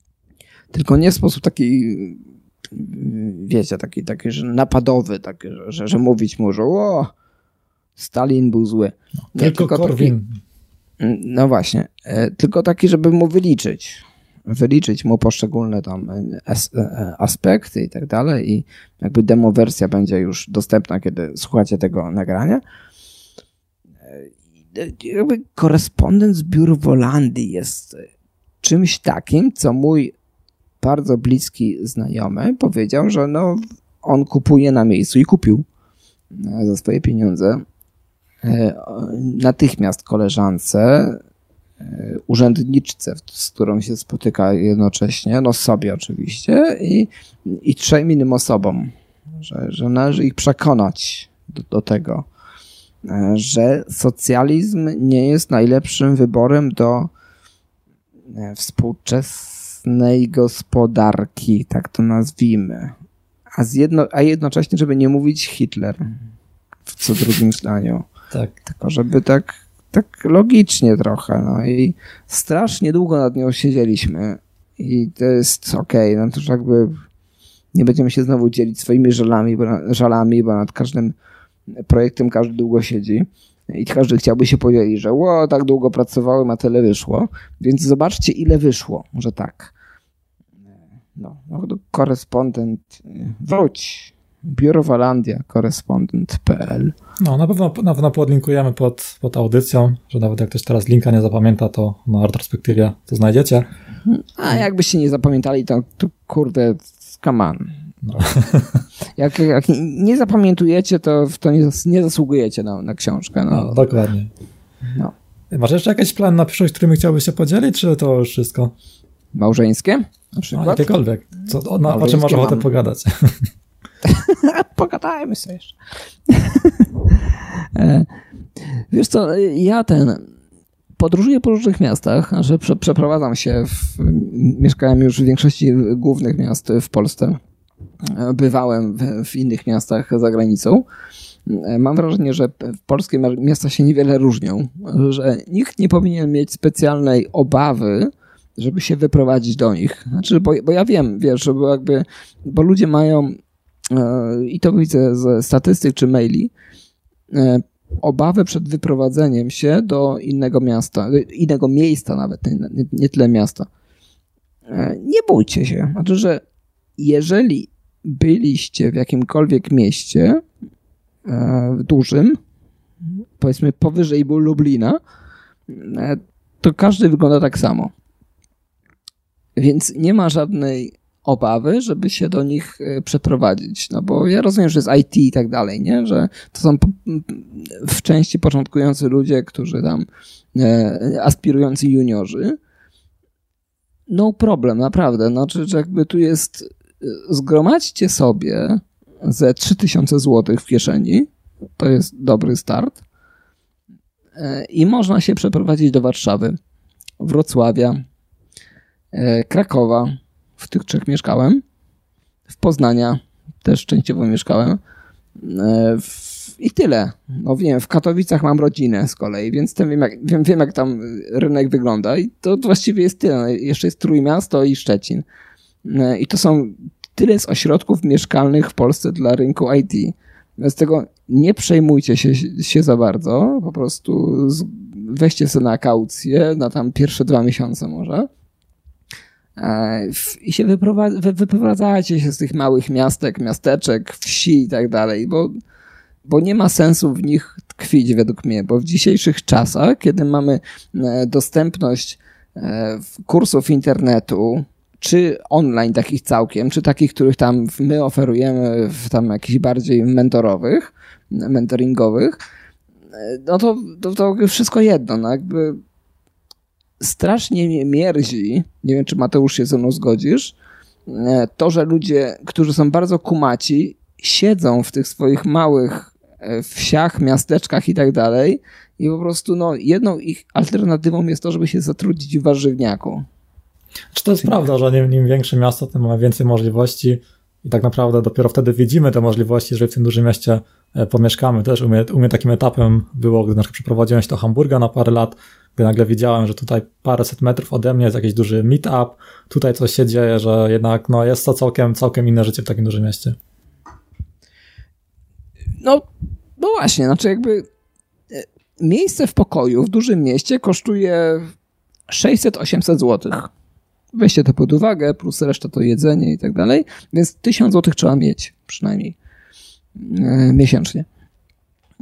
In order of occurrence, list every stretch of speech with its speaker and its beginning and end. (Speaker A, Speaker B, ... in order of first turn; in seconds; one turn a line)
Speaker A: 0.7-7.1
Speaker A: 8.0-10.2
Speaker B: 9.3-10.4
Speaker A: 11.0-22.6
Speaker A: 24.1-28.1
Speaker A: 28.6-30.1
Speaker A: 30.8-35.7
Speaker A: 36.3-37.6
Speaker A: 38.4-41.2
Speaker A: 41.8-52.3
Speaker A: 53.0-57.1
Speaker A: 58.3-63.0
Speaker A: 63.6-66.1
Speaker A: 66.9-68.1
Speaker A: 68.7-77.0
Speaker A: 77.7-81.2
Speaker A: 81.7-89.7
Speaker A: 91.2-96.9
Speaker B: 97.2-103.7
Speaker A: 104.1-107.8
Speaker B: 108.0-108.8
Speaker A: 109.2-113.8
Speaker B: 113.5-114.3
Speaker B: 115.5-118.7
Speaker A: 119.3-120.9
Speaker B: 120.5-123.5
Speaker A: 121.9-122.7
Speaker A: 124.0-125.8
Speaker A: 126.3-128.1
Speaker A: 128.6-130.2
Speaker A: 131.0-137.4
Speaker A: 138.0-140.8
Speaker A: 141.5-156.5
Speaker A: 157.3-163.7
Speaker A: 164.7-166.4
Speaker A: 167.0-170.4
Speaker A: 171.3-172.4
Speaker A: 173.4-175.0
Speaker A: 175.7-177.9
Speaker A: 179.6-192.6
Speaker A: 194.1-203.0
Speaker A: 204.3-206.6
Speaker A: 207.2-208.0
Speaker A: 209.1-211.6
Speaker A: 212.5-214.8
Speaker A: 215.4-225.2
Speaker A: 225.8-238.3
Speaker A: 239.6-245.5
Speaker A: 246.2-262.4
Speaker A: 263.1-265.8
Speaker A: 267.0-270.6
Speaker A: 271.1-283.3
Speaker B: 284.1-303.4
Speaker A: 305.8-306.1
Speaker A: 306.6-307.6
Speaker A: 308.3-311.5
Speaker A: 312.1-313.5
Speaker A: 314.1-319.2
Speaker A: 320.0-321.1